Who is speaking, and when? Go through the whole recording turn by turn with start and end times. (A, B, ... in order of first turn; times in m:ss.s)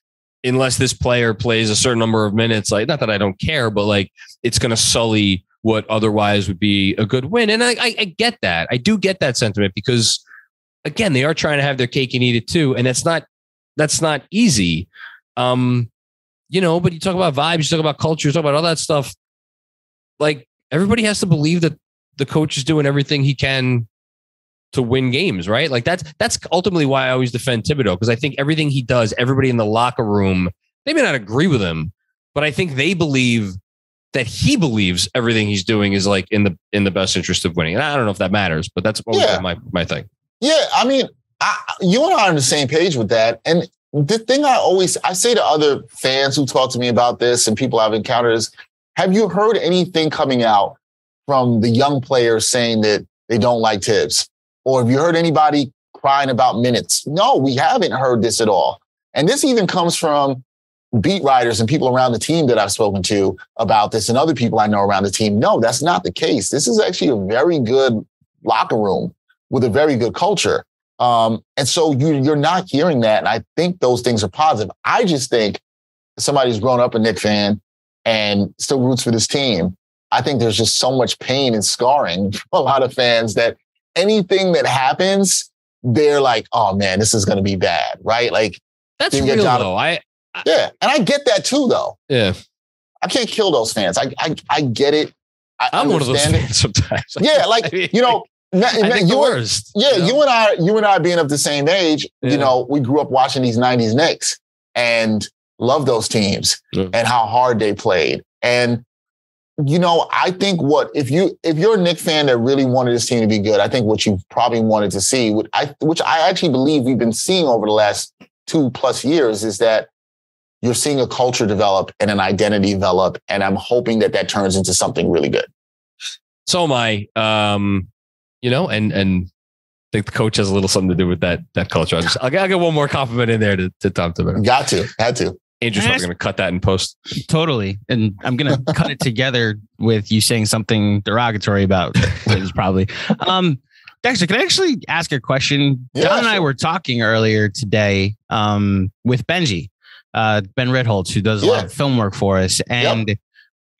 0:00.4-0:10.2 A
0:10.8-0:13.2 A
0:13.8-0:15.9 A
0:16.5-0:19.1 A
0:20.2-0:23.9 A
0:24.7-0:33.6 A
0:34.1-0:40.0 A
0:39.1-0:39.4 B
0:40.4-1:00.4 B
1:01.0-1:15.6 B
1:16.2-1:29.7 B
1:29.0-1:30.4 A
1:30.4-1:32.0 B
1:32.1-1:32.4 A
1:33.0-1:36.4 B
1:35.7-1:38.2 A
1:37.2-1:48.8 B
1:38.7-1:40.2 A
1:42.2-1:42.5 A
1:49.6-1:59.9 B
2:00.6-2:05.5 B
2:06.4-2:07.9 A
2:08.4-2:09.3 A
2:09.9-2:14.4 A
2:14.4-2:15.4 B
2:15.6-2:17.0 A
2:15.8-2:16.1 C
2:17.3-2:33.2 C
2:25.9-2:26.4 B
2:31.4-2:31.7 B